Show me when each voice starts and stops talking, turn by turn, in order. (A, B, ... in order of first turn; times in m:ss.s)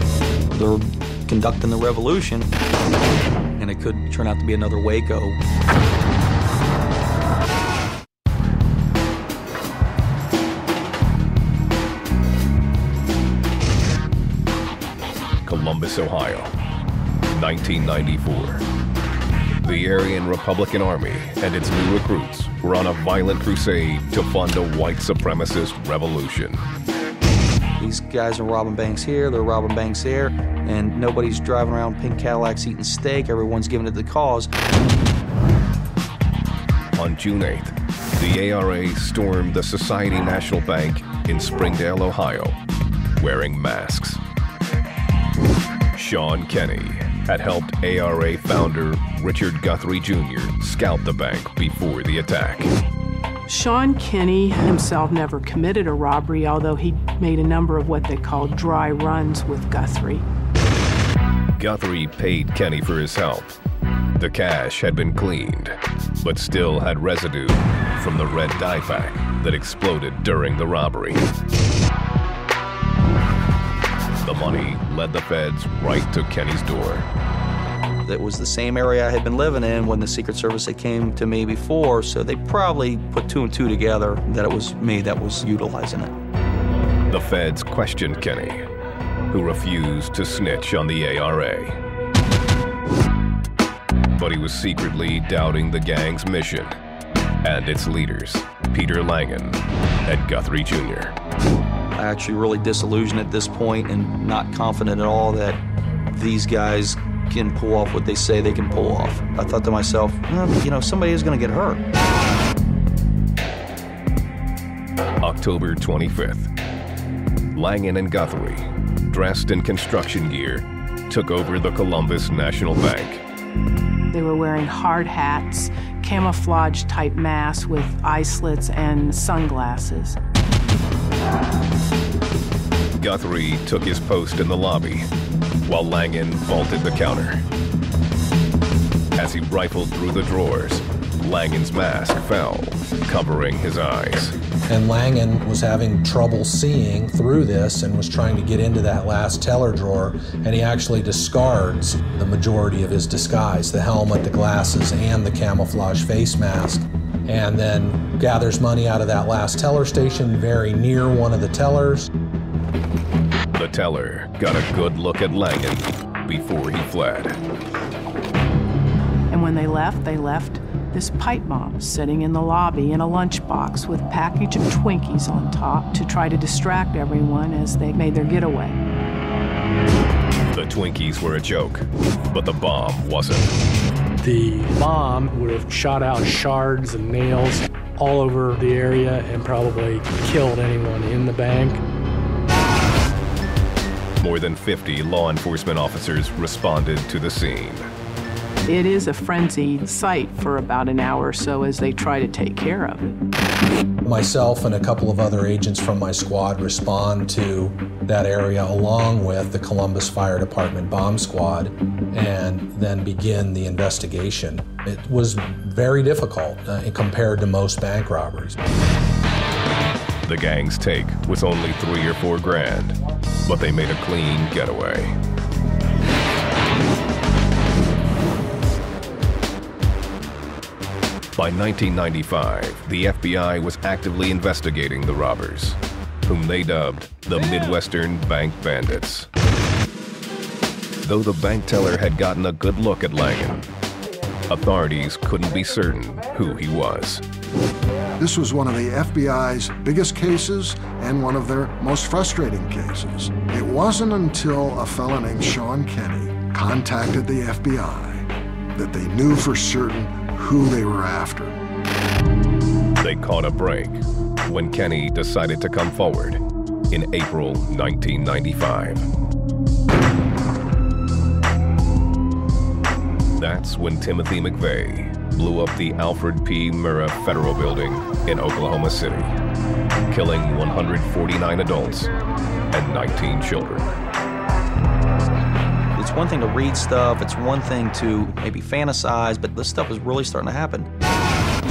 0:00.5-0:02.5 A
0:03.6-0:05.4 A
0:15.4-0:16.5 B
0:17.3-0:18.6 B
0:19.6-0:26.6 B
0:27.8-0:34.5 A
0:37.0-0:42.6 B
0:43.2-0:44.2 B
0:45.9-0:52.7 B
0:53.5-1:00.2 C
1:01.6-1:03.6 B
1:04.2-1:11.2 B
1:14.2-1:17.1 B
1:18.0-1:26.1 A
1:27.1-1:28.6 B
1:29.3-1:31.8 B
1:34.2-1:36.7 B
1:37.4-1:41.1 B
1:42.0-1:45.6 A
1:46.1-1:51.8 A
1:55.2-1:56.5 B
1:57.5-2:03.2 B
2:04.1-2:10.2 C
2:13.0-2:15.1 B
2:15.6-2:17.4 B
2:19.1-2:24.3 B
2:24.7-2:42.1 D
2:43.5-2:47.4 B
2:49.3-2:58.8 C
3:00.5-3:03.5 B
3:04.2-3:11.8 E
3:14.2-3:17.9 B
3:18.6-3:23.2 C
3:24.0-3:38.6 D
3:40.2-3:45.2 B
3:51.4-3:59.3 B
4:01.0-4:03.7 B
4:04.5-4:07.2 B
4:08.2-4:21.5 F
4:23.0-4:29.1 B
4:33.4-4:39.3 B
4:40.1-4:42.1 B
4:42.7-4:43.9 B
4:46.0-4:50.9 A